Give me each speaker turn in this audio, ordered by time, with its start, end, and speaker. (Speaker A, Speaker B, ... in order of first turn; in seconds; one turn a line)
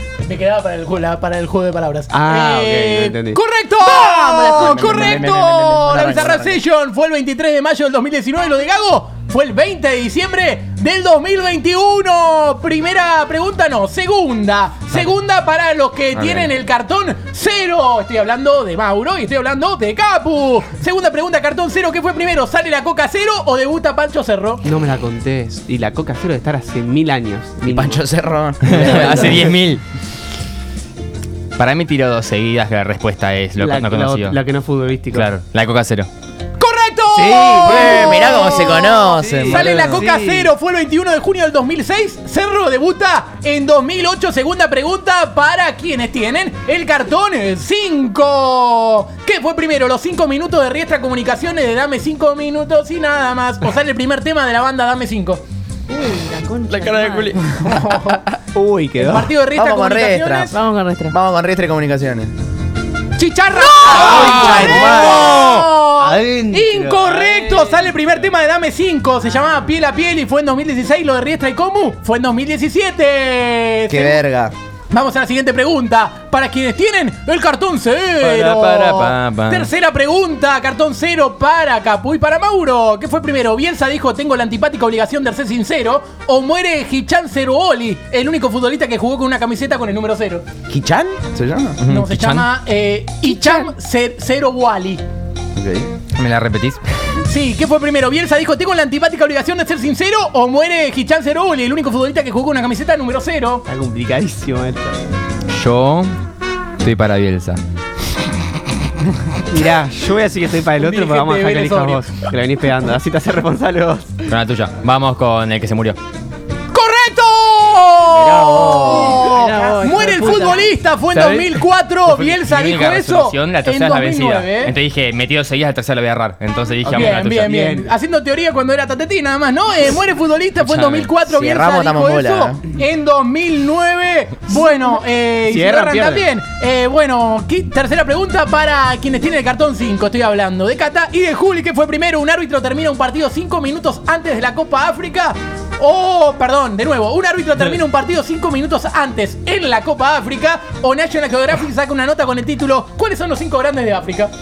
Speaker A: 0.2-24.6
Speaker B: 2.1-3.4
Speaker C: 3.9-4.9
Speaker D: 4.1-6.6
Speaker D: 16.1-16.5
Speaker B: 24.6-28.0
Speaker D: 27.6-29.5
Speaker E: 28.6-29.8
Speaker B: 28.7-29.5
Speaker E: 31.6-34.4
Speaker B: 33.6-35.3
Speaker E: 35.1-36.1
Speaker A: 36.6-55.4
Speaker B: 37.1-40.5
Speaker D: 37.5-40.0
Speaker C: 55.9-57.4
Speaker E: 56.7-58.4
Speaker A: 57.5-58.2
Speaker B: 58.5-59.3
Speaker A: 59.0-60.6
Speaker D: 59.5-60.5
Speaker C: 60.5-61.1
Speaker D: 61.1-62.3
Speaker A: 63.2-74.2
Speaker E: 63.8-65.4
Speaker D: 63.9-65.5
Speaker B: 65.2-67.8
Speaker D: 73.9-74.5
Speaker A: 74.9-90.4
Speaker E: 78.2-79.7
Speaker D: 90.7-92.1
Speaker A: 91.8-95.0
Speaker E: 92.0-92.5
Speaker D: 95.5-95.9
Speaker E: 96.2-96.8
Speaker A: 97.2-103.6
Speaker B: 103.7-105.0
Speaker E: 105.5-106.2
Speaker E: 106.8-107.6
Speaker B: 109.5-114.2
Speaker A: 110.8-112.3
Speaker E: 114.3-116.0
Speaker A: 116.7-124.7
Speaker E: 118.3-119.0
Speaker C: 118.8-120.7
Speaker E: 121.1-127.5
Speaker B: 126.8-127.9
Speaker A: 126.9-154.3
Speaker E: 130.6-131.1
Speaker D: 131.3-132.6
Speaker B: 135.4-136.3